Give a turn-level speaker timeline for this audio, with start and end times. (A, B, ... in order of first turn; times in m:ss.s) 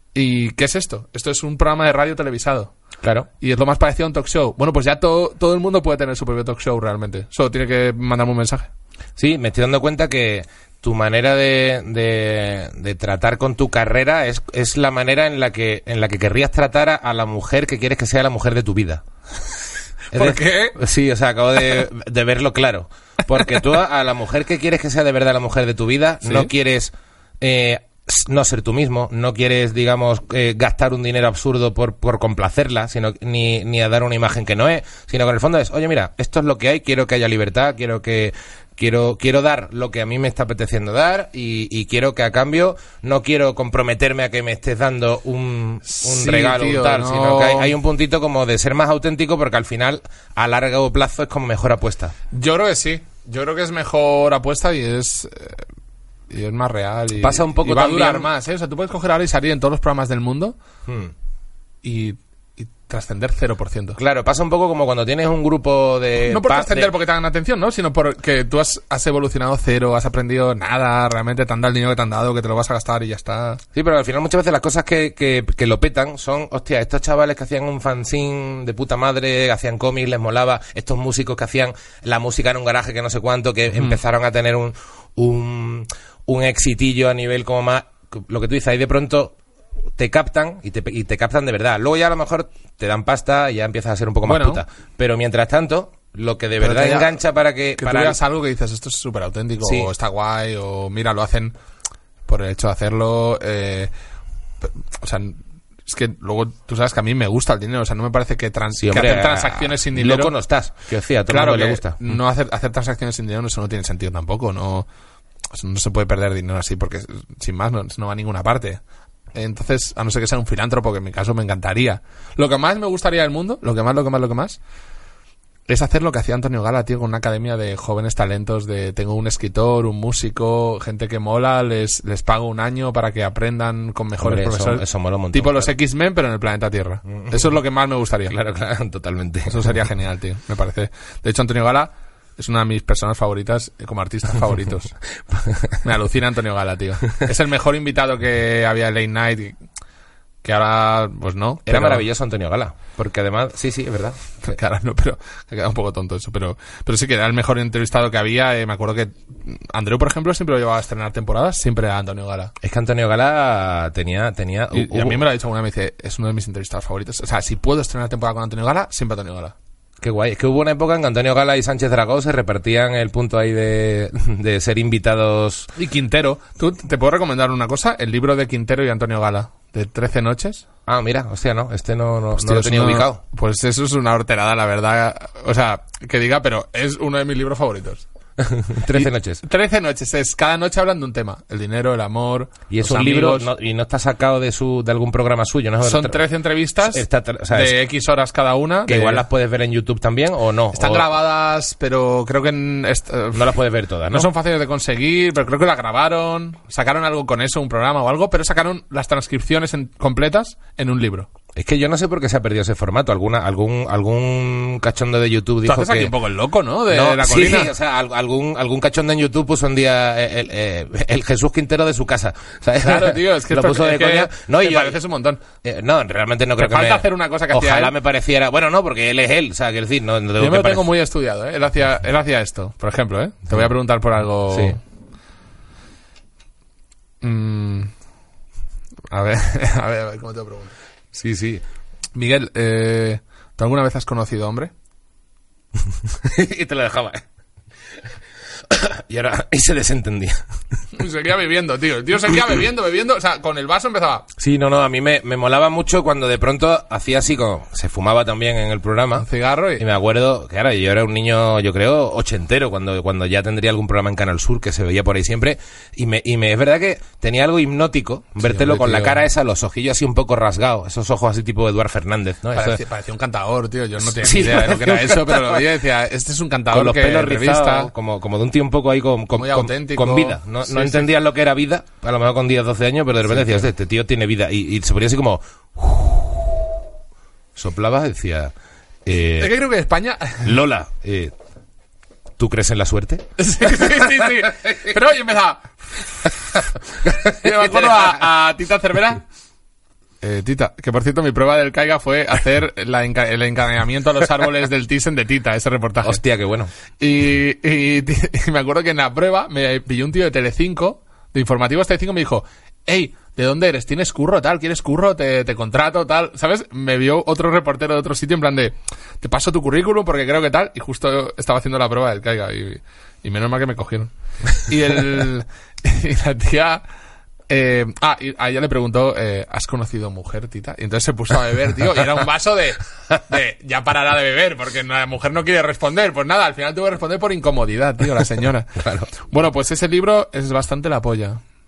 0:00.1-0:02.7 A
0:03.0-0:03.3 B
0:03.4-0:08.7 A
0:09.2-0:19.0 B
0:20.1-0:20.8 A
0:20.1-0:52.1 B
0:26.2-0:26.5 A
0:45.8-0:47.7 A
0:52.3-0:55.6 A
0:56.3-1:00.6 A
0:57.2-0:58.3 B
1:00.8-1:01.1 B
1:01.8-1:04.0 A
1:04.0-1:06.9 B
1:06.2-1:13.6 A
1:13.7-1:29.4 B
1:30.0-1:38.2 B
1:34.2-1:34.6 A
1:36.6-1:37.2 A
1:37.8-1:41.5 A
1:39.6-1:39.9 B
1:42.3-1:43.9 A
1:44.6-1:50.3 A
1:48.8-1:52.0 B
1:51.3-1:54.9 A
1:55.5-1:58.8 A
1:59.3-2:04.6 A
2:05.7-2:18.3 A
2:14.2-2:15.7 B
2:18.3-2:19.7 B
2:19.5-2:25.0 A
2:25.3-2:25.8 B
2:25.8-2:29.6 A
2:30.4-2:32.0 A
2:31.6-2:34.2 B
2:34.4-2:42.5 A
2:42.6-2:45.2 B
2:44.7-2:49.5 A
2:50.0-2:55.7 B
2:55.8-3:00.6 A
3:00.8-3:03.2 B
3:02.4-3:08.0 A
3:08.4-3:09.4 B
3:08.9-3:13.5 A
3:12.7-3:16.2 B
3:15.8-3:19.2 A
3:16.9-3:17.8 B
3:18.9-3:21.1 B
3:20.7-3:23.5 A
3:23.3-3:24.3 B
3:24.1-3:31.3 A
3:31.5-3:36.1 B
3:35.6-3:37.7 A
3:36.9-3:45.0 B
3:42.8-3:45.4 A
3:45.6-3:50.9 B
3:46.6-3:47.9 A
3:50.4-3:54.8 A
3:54.5-3:54.8 B
3:57.2-3:57.9 A
3:59.1-4:00.7 A
4:01.1-4:01.6 B
4:02.1-4:04.7 A
4:06.1-4:07.2 B
4:08.7-4:10.4 B
4:10.9-4:14.2 A
4:14.4-4:19.3 B
4:19.2-4:19.8 A
4:19.8-4:32.8 B
4:28.4-4:29.2 A
4:32.5-4:37.9 A
4:34.1-4:35.6 B
4:36.7-4:46.6 B
4:39.4-4:41.1 A
4:43.3-4:43.6 A
4:47.6-4:48.5 B
4:49.0-4:49.5 B
4:49.4-4:50.5 A
4:50.4-4:51.3 B
4:52.4-4:54.8 B
4:53.4-4:59.2 A
4:57.0-4:58.2 B
5:00.2-5:06.2 A
5:06.0-5:06.7 B
5:07.0-5:26.8 A
5:27.5-5:41.4 A
5:38.8-5:39.1 B